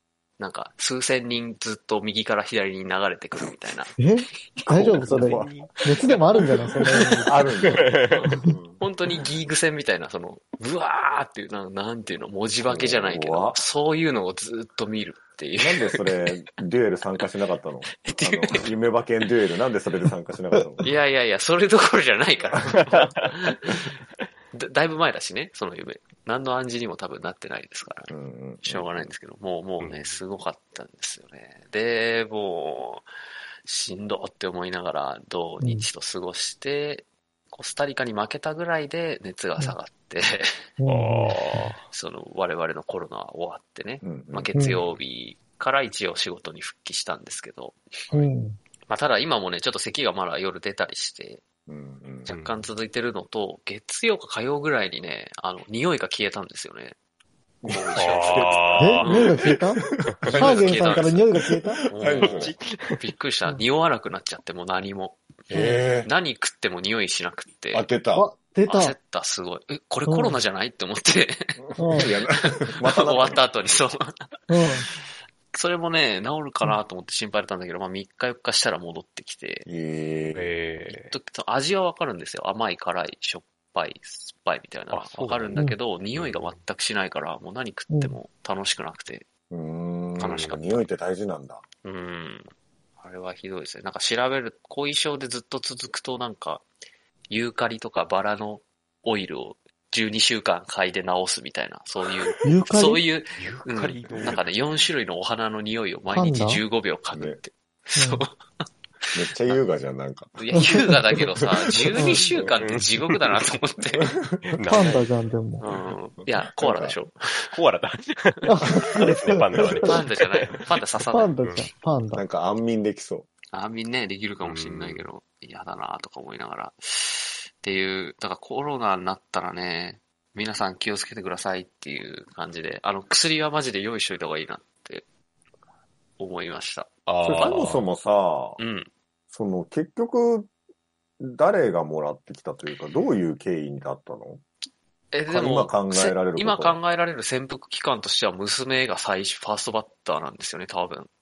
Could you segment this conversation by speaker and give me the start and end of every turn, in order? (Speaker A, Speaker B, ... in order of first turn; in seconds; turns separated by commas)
Speaker A: 0.4-4.0, Speaker B: 4.0-7.4, Speaker C: 4.7-5.5, Speaker D: 4.9-5.9, Speaker C: 7.2-8.8, Speaker D: 7.7-8.2, Speaker A: 8.1-16.3, Speaker C: 12.7-13.6, Speaker C: 15.6-20.9, Speaker A: 18.0-18.8, Speaker A: 20.8-23.7, Speaker C: 22.5-22.9, Speaker A: 24.5-33.1, Speaker C: 28.1-29.1, Speaker D: 29.8-30.2, Speaker A: 33.7-40.5, Speaker B: 40.8-41.7, Speaker D: 40.9-41.8, Speaker A: 41.9-47.8, Speaker C: 44.0-44.8, Speaker B: 44.5-44.8, Speaker B: 48.1-48.6, Speaker A: 48.9-51.4, Speaker C: 51.7-52.3, Speaker A: 52.3-57.0, Speaker D: 52.3-52.7, Speaker A: 57.6-59.4, Speaker C: 57.6-62.6, Speaker D: 58.0-59.2, Speaker B: 58.8-59.8, Speaker D: 60.1-60.4, Speaker A: 60.3-61.3, Speaker B: 60.4-61.8, Speaker A: 61.9-65.2, Speaker D: 62.2-62.9, Speaker C: 65.5-66.1, Speaker A: 66.0-67.9, Speaker C: 67.7-68.2, Speaker B: 68.1-69.0, Speaker A: 68.7-71.4, Speaker B: 70.1-70.4, Speaker C: 71.6-73.4, Speaker B: 71.8-72.1, Speaker A: 72.8-74.1, Speaker B: 74.5-74.9, Speaker A: 75.5-79.7, Speaker C: 79.7-80.5, Speaker D: 80.3-81.1, Speaker A: 80.8-89.3, Speaker D: 84.9-86.6, Speaker C: 89.5-91.6, Speaker A: 90.2-90.9, Speaker A: 91.8-96.7, Speaker A: 97.3-108.4, Speaker B: 102.4-103.0, Speaker D: 103.4-104.5, Speaker B: 106.1-106.6, Speaker C: 107.1-107.4, Speaker B: 108.0-108.2, Speaker A: 109.0-109.6, Speaker C: 109.2-110.8, Speaker A: 110.4-114.2, Speaker B: 110.6-110.8, Speaker C: 111.9-112.6, Speaker B: 112.0-112.3, Speaker D: 112.6-113.1, Speaker C: 114.0-114.5, Speaker D: 114.5-115.1, Speaker B: 114.7-115.6, Speaker A: 115.6-117.2, Speaker C: 115.7-117.0, Speaker D: 117.5-120.5, Speaker B: 118.5-120.0, Speaker C: 119.6-119.9, Speaker A: 119.8-121.4, Speaker B: 121.1-122.2, Speaker D: 121.4-121.7, Speaker C: 122.1-123.3, Speaker A: 123.5-135.1, Speaker D: 124.4-125.0, Speaker A: 136.2-137.7, Speaker D: 137.1-137.9, Speaker C: 137.2-138.6, Speaker A: 138.6-138.9, Speaker C: 139.3-140.5, Speaker C: 141.2-144.4, Speaker A: 145.1-151.1, Speaker C: 145.3-146.8